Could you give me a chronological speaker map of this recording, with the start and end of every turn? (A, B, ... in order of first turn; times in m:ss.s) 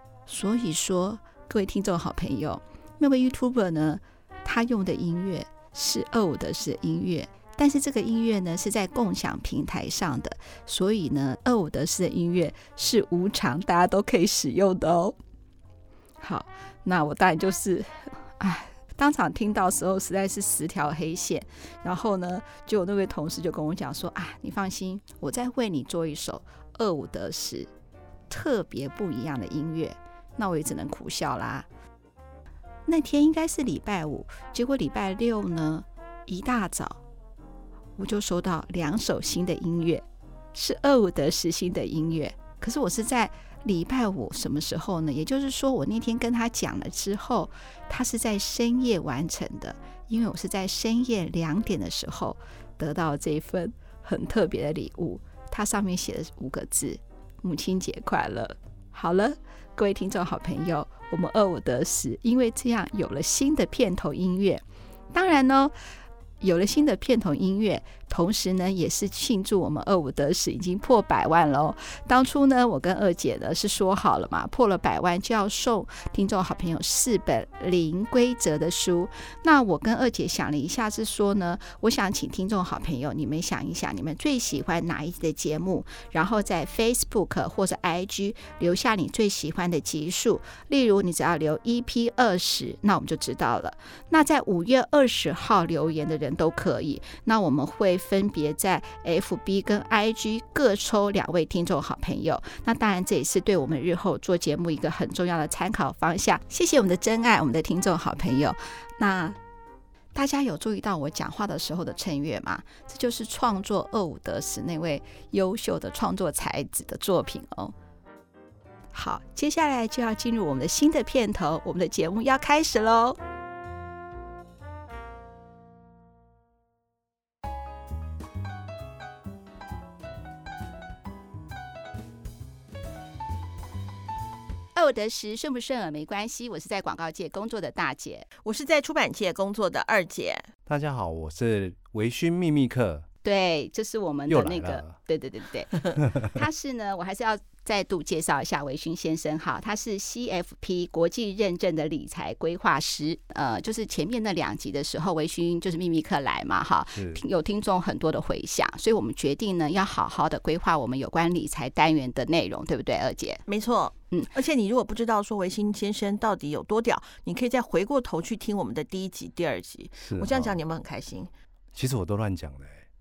0:00.3-0:15.2 A
0:16.2-0:27.7 A
0:28.3-0:31.7 A
0:32.9-0:37.0 A
0:38.0-0:40.0 A
0:40.5-1:05.7 A
1:06.4-1:49.4 A
1:50.1-1:57.7 A
1:58.9-2:03.2 A
2:14.8-2:18.3 A
2:18.4-2:20.5 B
2:20.7-2:23.1 C
2:23.2-2:43.4 A
2:24.3-2:25.0 C
2:37.0-2:37.2 C
2:43.5-2:51.3 B
2:50.1-2:50.6 C
2:51.8-2:52.8 C